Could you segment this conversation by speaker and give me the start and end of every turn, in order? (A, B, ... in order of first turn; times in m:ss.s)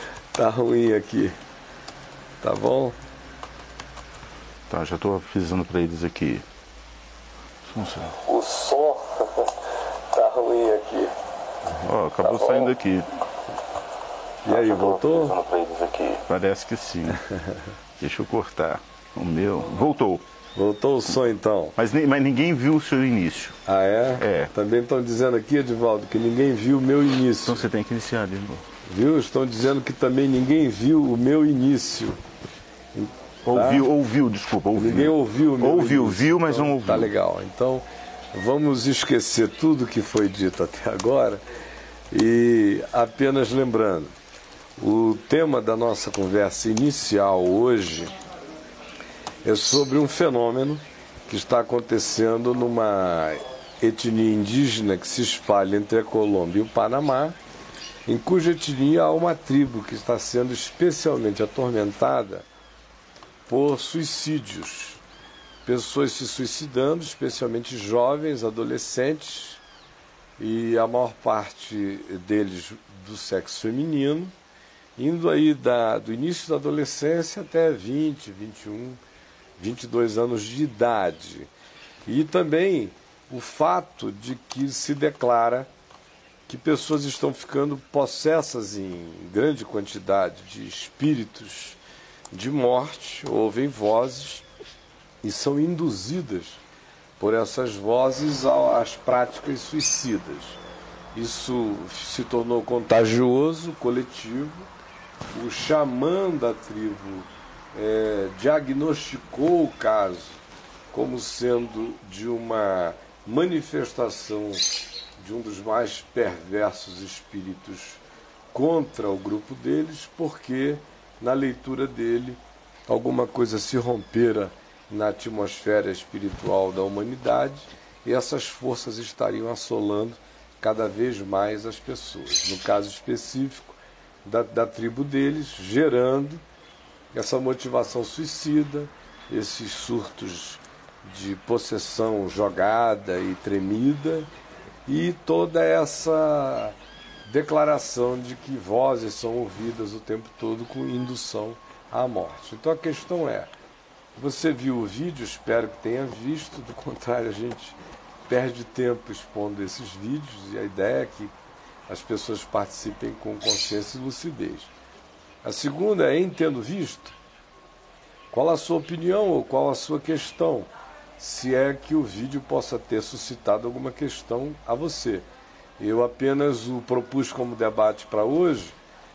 0:00.3-0:01.4 A
0:02.4-0:03.0 A
0:04.7-0:06.4 B
0:07.7-0:08.2 B
0:08.2-0:09.5 A
0:10.1-0:11.1 A
0:11.8-0:13.2 B
0:14.4-0:15.6 A
0:15.7-0:17.2 B
0:17.3-0:17.6 A
0:18.0-0:20.2 B
0:20.6-0:21.8 A
0:21.8-0:23.6 B
0:23.7-0:27.6 A
0:24.2-0:24.5 B
0:27.4-0:28.6 B
0:28.9-0:32.2 A
0:33.0-0:33.9 A
0:33.4-0:37.1 B
0:34.8-0:41.4 A
0:42.1-0:44.1 A
0:44.8-0:48.1 A
0:49.4-0:57.4 A
0:58.1-1:02.5 A
1:03.5-1:05.0 A
1:05.6-1:09.6 A
1:10.4-1:14.3 A
1:15.0-1:19.0 A
1:19.6-1:21.5 A
1:22.1-1:25.7 A
1:26.5-1:31.8 A
1:32.3-1:34.5 A
1:35.2-1:36.6 A
1:37.2-1:40.6 A
1:41.2-1:44.7 A
1:45.3-1:58.0 A
1:58.5-2:16.4 A
2:17.1-2:24.3 A
2:24.9-2:26.8 A
2:27.3-2:33.5 A
2:34.2-2:37.8 A
2:38.3-2:41.3 A
2:41.9-2:44.7 A
2:45.4-2:47.2 A
2:48.3-2:55.3 A
2:55.8-2:58.8 A